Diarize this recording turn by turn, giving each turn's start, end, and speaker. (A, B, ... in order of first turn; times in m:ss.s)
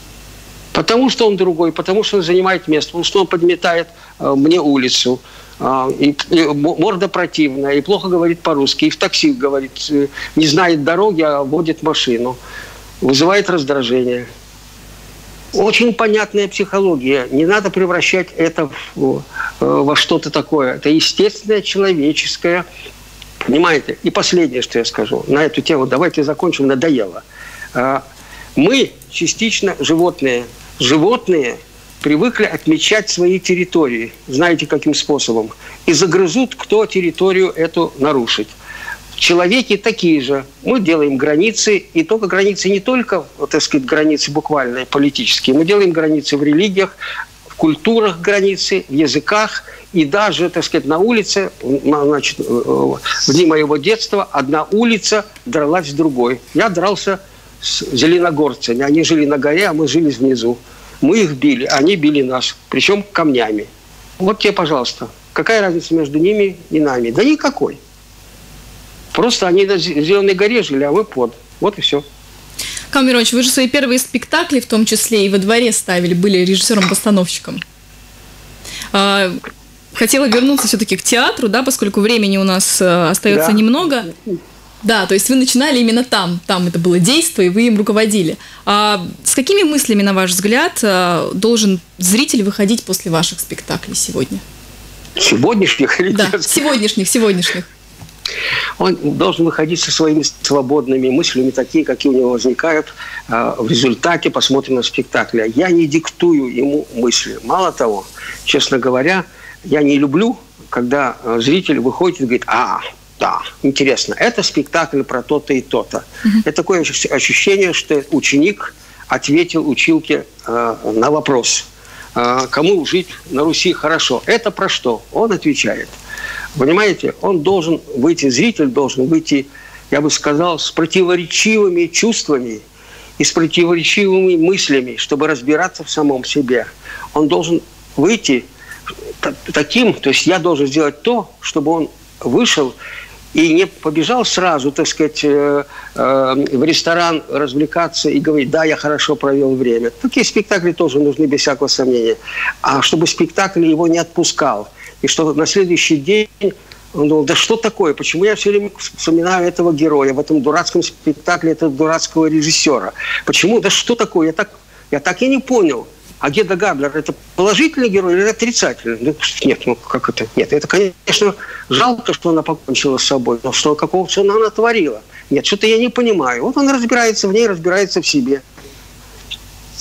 0:00.7-0:12.4 A
0:13.0-0:14.3 A
0:15.5-0:22.6 A
0:23.4-0:27.2 A
0:27.7-0:28.0 A
0:28.6-0:38.5 A
0:39.2-0:47.0 A
0:47.6-1:03.7 A
1:04.2-1:07.8 A
1:09.1-1:12.0 A
1:12.9-1:17.6 B
1:18.9-1:19.4 B
1:20.0-1:24.1 B
1:23.3-1:23.6 A
1:24.8-1:34.4 B
1:35.2-1:36.6 A
1:36.1-1:37.7 B
1:38.8-2:05.9 A
2:06.6-2:12.6 A
2:13.2-2:18.5 A
2:19.2-2:22.8 A
2:23.3-2:58.4 A